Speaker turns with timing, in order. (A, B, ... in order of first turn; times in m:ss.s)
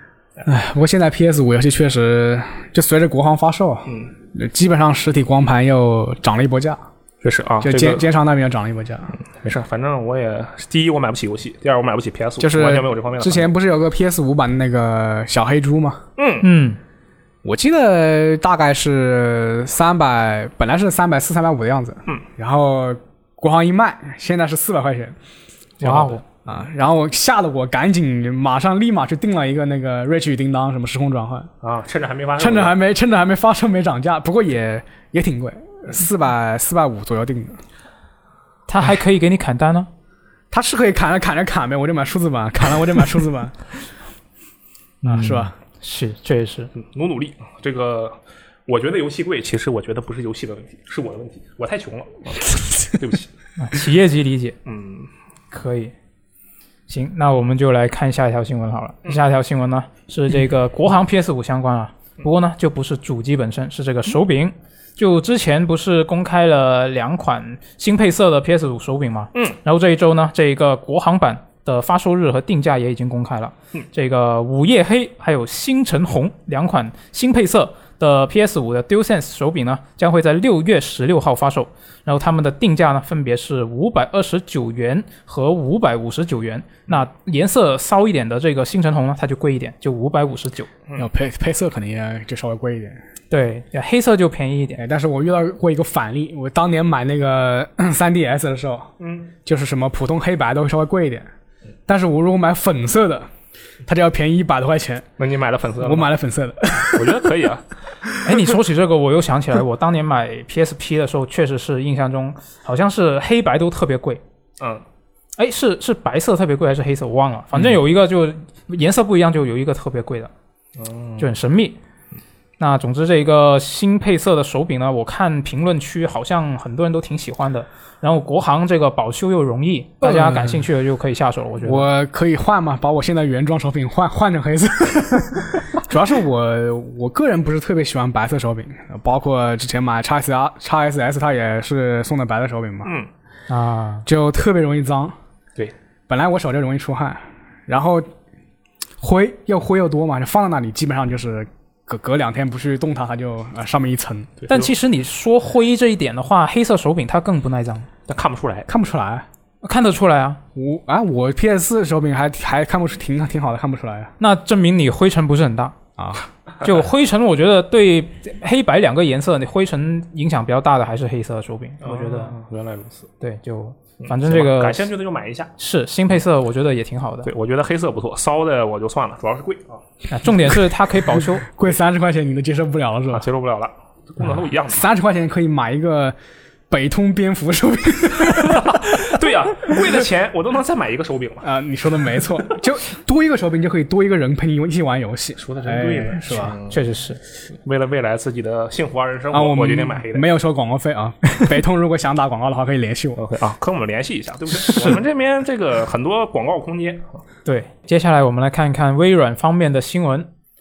0:00.4-0:06.8 A
0:07.2-0:08.1 B
0:07.6-0:09.2 A
0:09.4-0:13.5 B
0:12.4-0:16.0 A
0:16.2-0:16.5 B
0:16.4-0:16.8 C
0:17.4-0:25.2 A
0:25.8-0:26.2 B
0:25.8-0:26.2 C
0:26.5-0:31.5 A
0:31.6-0:32.8 B
0:32.4-0:37.6 A
0:38.7-0:39.9 C
0:40.5-0:43.6 A
0:45.0-0:46.7 C
0:45.0-0:45.5 A
0:46.8-0:53.3 B
0:53.6-0:54.6 C
0:54.7-0:55.1 B
0:55.5-0:55.9 C
0:56.9-1:30.7 C
1:31.0-1:33.0 A
1:33.3-1:34.8 C
1:34.8-1:38.9 A
1:39.0-1:39.3 B
1:39.4-1:41.3 A
1:41.9-1:43.3 A
1:43.8-1:45.1 A
1:45.2-1:46.1 B
1:45.8-1:47.4 A
1:46.9-1:47.7 B
1:48.2-1:54.2 C
1:55.4-2:00.3 C
2:00.8-2:01.3 B
2:01.2-2:01.8 C
2:02.6-2:11.9 C
2:10.0-2:10.6 A
2:11.6-2:23.0 A
2:22.8-2:23.1 B
2:23.5-2:24.1 C
2:24.1-2:25.2 A
2:26.1-2:28.1 A
2:29.0-2:34.3 A
2:34.4-2:34.7 B
2:34.5-2:37.9 C
2:38.1-2:38.7 B
2:38.7-2:39.3 A
2:39.6-2:40.4 C
2:40.6-2:44.1 A
2:44.2-2:45.8 C
2:46.0-2:46.2 A
2:46.6-2:52.4 C
2:51.8-2:53.1 B
2:53.2-2:54.9 C
2:54.0-2:55.5 B
2:55.6-2:57.3 C
2:57.2-2:59.8 B
3:00.1-3:01.5 C
3:01.2-3:03.3 A
3:03.1-3:04.9 B
3:04.7-3:06.2 A
3:06.7-3:09.1 A
3:08.2-3:11.5 B
3:11.4-3:16.6 A
3:15.4-3:16.8 B
3:16.7-3:17.2 C
3:17.6-3:20.3 B
3:19.3-3:23.2 A
3:23.2-3:27.2 B
3:27.4-3:30.3 C